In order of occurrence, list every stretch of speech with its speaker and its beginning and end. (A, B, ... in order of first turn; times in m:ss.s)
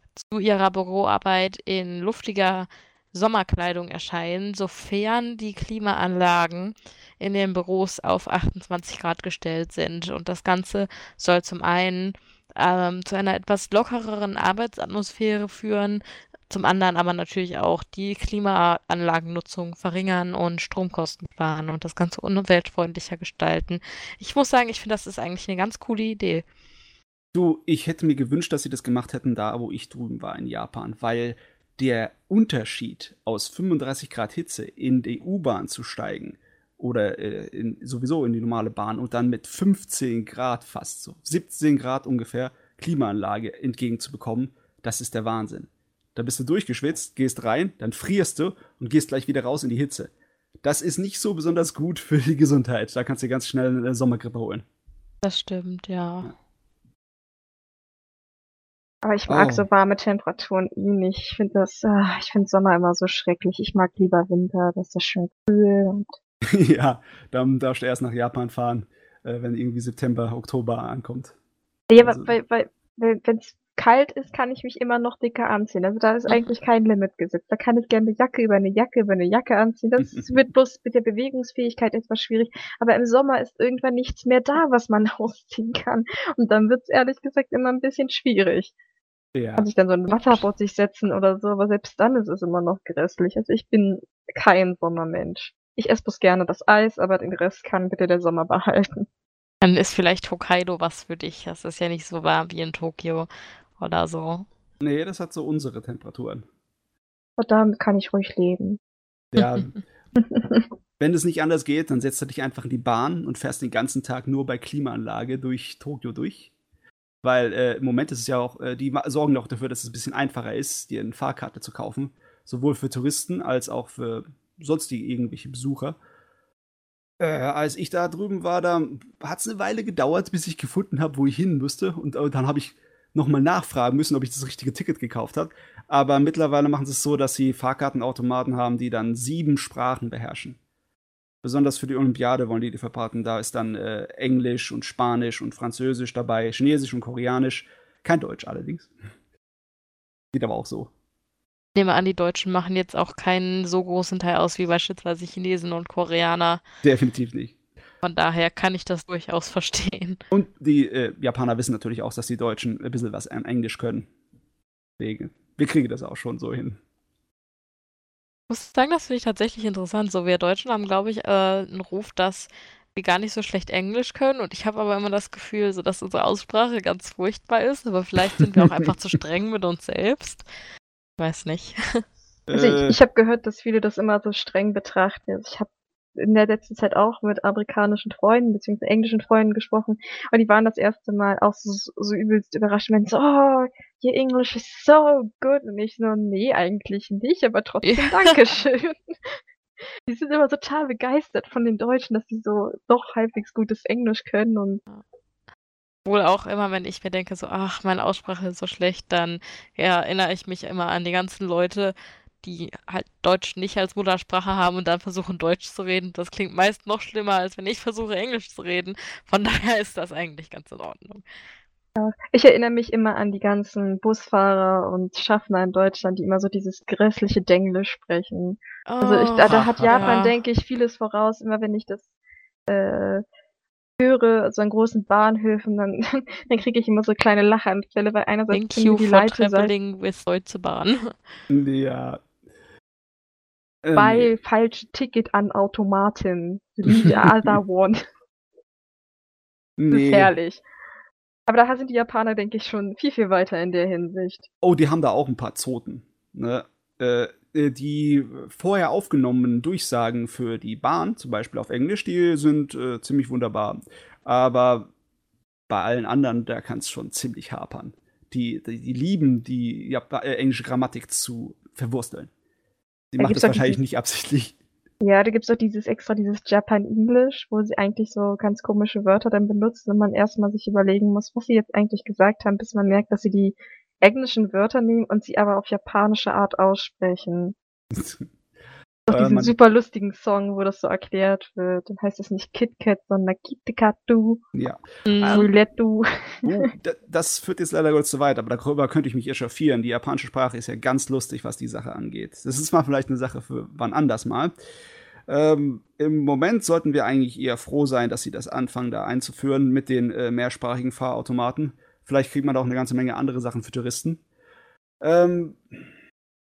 0:00.2-0:26.4 A
0:27.3-0:50.1 B
0:50.6-0:54.6 B
0:55.2-0:56.3 A
0:59.0-1:06.1 C
0:59.3-0:59.7 B
1:06.5-1:11.4 B
1:11.9-1:28.7 C
1:12.0-1:12.4 B
1:20.0-1:20.3 B
1:29.4-1:29.7 B
1:29.6-1:39.0 C
1:39.6-1:44.5 A
1:44.8-1:46.4 B
1:47.4-1:48.8 C
1:49.3-1:49.7 B
1:50.2-1:50.7 C
1:51.0-1:56.5 B
1:57.2-2:06.0 B
2:07.2-2:20.6 B
2:21.4-2:28.9 B
2:30.3-2:30.9 B
2:31.8-2:36.6 A
2:36.8-2:37.6 B
2:38.0-2:40.2 A
2:40.3-2:44.1 B
2:45.0-2:46.8 B
2:48.5-3:00.5 A
2:58.6-2:58.9 B
3:01.2-3:02.0 A
3:02.5-3:03.0 B
3:02.5-3:19.4 C
3:17.8-3:18.4 A
3:20.1-3:24.8 C
3:26.1-3:41.2 A
3:42.0-3:52.1 C
3:48.9-3:50.4 A
3:49.5-3:50.2 B
3:52.7-3:53.2 C
3:54.0-3:59.7 C
3:58.5-4:01.2 A
4:01.5-4:02.2 B
4:03.8-4:04.3 B
4:03.9-4:08.0 C
4:06.9-4:07.6 B
4:09.8-4:10.3 B
4:09.9-4:10.6 C
4:11.5-4:14.4 C
4:14.6-4:24.9 B
4:25.7-4:32.3 B
4:33.1-4:34.6 B
4:33.2-4:33.8 C
4:35.0-4:47.6 C
4:47.9-4:48.3 B
4:49.1-4:54.4 C
4:49.1-4:49.5 B
4:54.5-4:55.5 B
4:55.1-4:55.5 A
4:55.2-4:56.7 C
4:56.4-5:04.5 B
5:05.3-5:14.2 B
5:15.0-5:15.8 B